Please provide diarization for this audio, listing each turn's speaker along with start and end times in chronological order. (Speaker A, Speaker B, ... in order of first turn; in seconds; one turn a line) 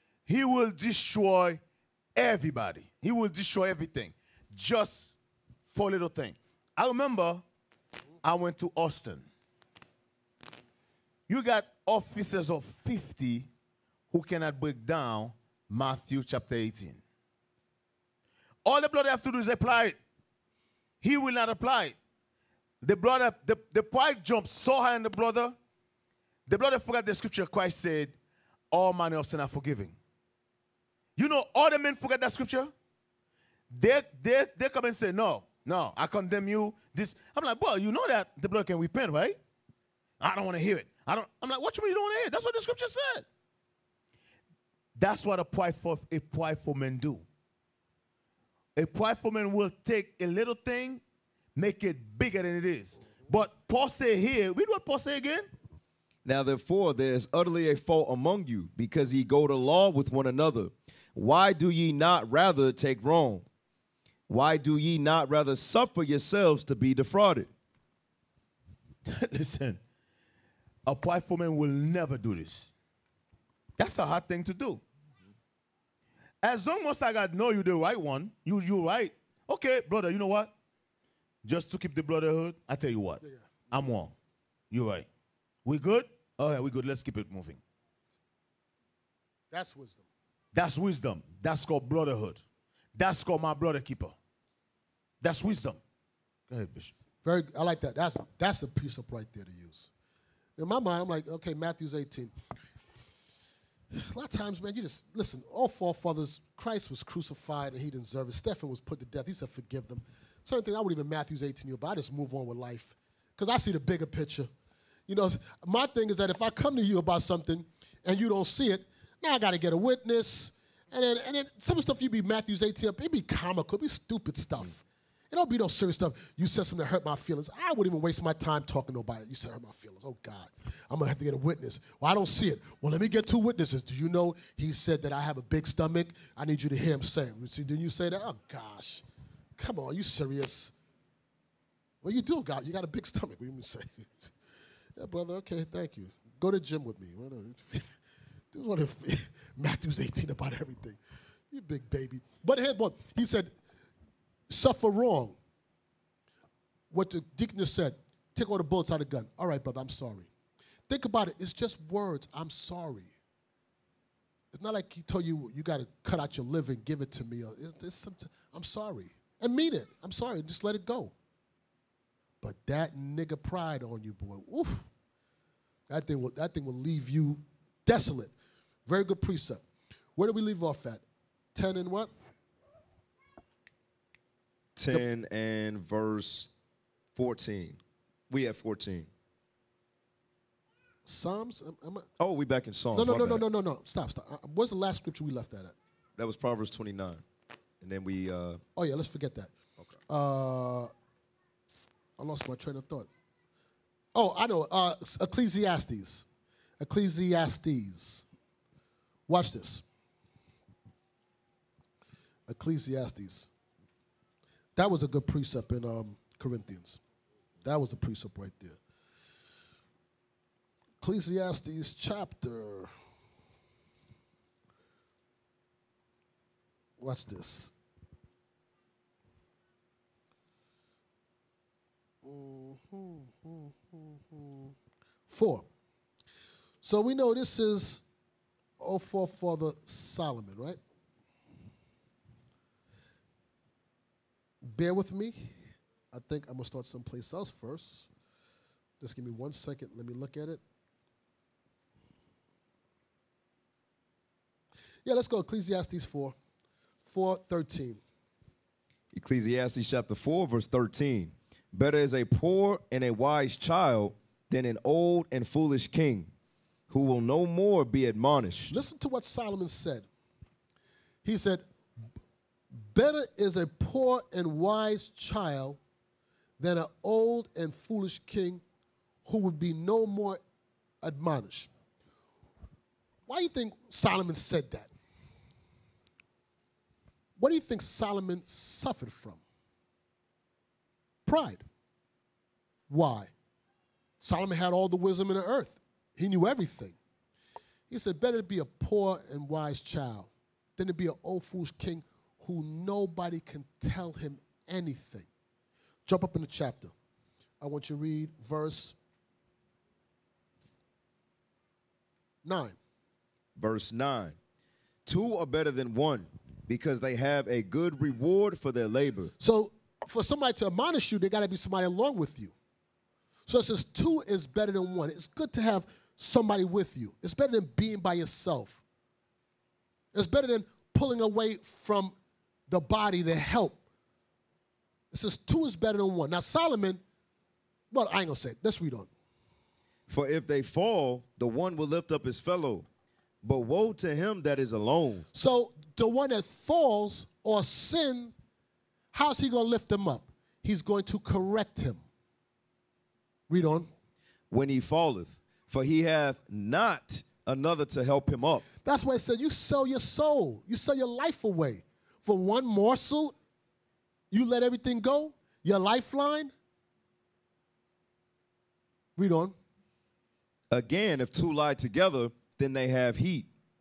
Speaker A: 0.2-1.6
Speaker A: 2.1-5.1
Speaker A: 5.7-7.4
Speaker A: 8.2-9.3
Speaker A: 11.3-13.5
Speaker A: 14.1-17.0
Speaker A: 18.6-20.0
Speaker A: 21.0-22.0
Speaker A: 22.8-25.6
Speaker A: 26.5-28.1
Speaker A: 28.7-29.9
Speaker A: 31.2-32.7
Speaker A: 33.7-39.4
Speaker A: 40.2-43.2
Speaker A: 45.0-47.2
Speaker A: 48.8-51.0
Speaker A: 51.5-55.5
Speaker B: 56.2-63.4
Speaker B: 64.3-67.5
Speaker A: 69.0-69.8
Speaker A: 70.8-72.7
Speaker A: 73.8-74.8
Speaker A: 76.4-80.5
Speaker A: 81.4-84.1
Speaker C: 83.2-83.5
Speaker A: 84.7-85.1
Speaker A: 85.6-87.6
Speaker C: 89.5-90.0
Speaker A: 90.5-92.4
Speaker A: 92.9-94.2
Speaker A: 95.2-95.8
Speaker A: 96.5-96.9
Speaker C: 97.2-99.9
Speaker C: 100.6-102.3
Speaker C: 103.9-114.5
Speaker C: 115.1-139.0
Speaker C: 139.6-140.7
Speaker C: 142.0-144.3
Speaker C: 145.0-147.9
Speaker C: 148.5-151.0
Speaker C: 151.5-153.5
Speaker C: 154.5-155.3
Speaker C: 156.9-160.3
Speaker C: 160.9-163.1
Speaker C: 164.5-171.1
Speaker C: 172.4-174.9
Speaker C: 175.9-178.3
Speaker C: 178.9-179.6
Speaker C: 180.2-181.0
Speaker C: 181.5-182.1
Speaker B: 184.8-186.5
Speaker B: 187.2-189.1
Speaker C: 191.1-192.1
Speaker B: 192.2-193.4
Speaker C: 192.9-195.7
Speaker B: 196.2-197.2
Speaker B: 197.8-198.6
Speaker C: 198.8-199.5
Speaker C: 200.1-200.9
Speaker C: 202.2-203.1
Speaker C: 204.1-206.2
Speaker C: 206.8-208.2
Speaker C: 209.3-209.8
Speaker C: 212.5-213.5
Speaker C: 214.8-217.0
Speaker C: 217.6-218.8
Speaker C: 221.0-222.9
Speaker C: 227.0-227.7
Speaker C: 232.2-234.7
Speaker C: 235.3-235.7
Speaker C: 236.8-238.0
Speaker C: 238.8-240.8
Speaker C: 244.6-245.5
Speaker C: 246.1-248.1
Speaker C: 249.0-250.6
Speaker C: 255.0-256.3
Speaker C: 257.0-258.0
Speaker B: 259.1-266.3
Speaker B: 266.9-268.7
Speaker C: 268.7-270.1
Speaker C: 271.2-271.6
Speaker C: 272.7-275.8
Speaker C: 276.6-278.6
Speaker C: 279.2-280.4
Speaker C: 281.0-281.7
Speaker C: 283.3-284.9
Speaker C: 287.4-289.4
Speaker C: 291.2-291.6
Speaker C: 292.9-293.3
Speaker C: 294.2-296.9
Speaker C: 297.9-305.3
Speaker C: 306.1-306.9
Speaker C: 307.6-308.9
Speaker C: 312.4-312.8
Speaker B: 313.6-314.4
Speaker B: 315.0-319.3
Speaker C: 319.4-322.5
Speaker C: 323.5-328.8
Speaker C: 330.1-332.1
Speaker C: 332.7-333.8
Speaker C: 335.1-337.0
Speaker C: 337.9-339.1
Speaker B: 340.1-342.9
Speaker B: 343.4-345.2
Speaker C: 345.3-348.3
Speaker C: 349.1-352.0
Speaker C: 353.5-353.9
Speaker B: 354.5-358.6
Speaker C: 358.8-363.3
Speaker C: 364.3-366.5
Speaker C: 369.2-369.5
Speaker B: 370.7-373.5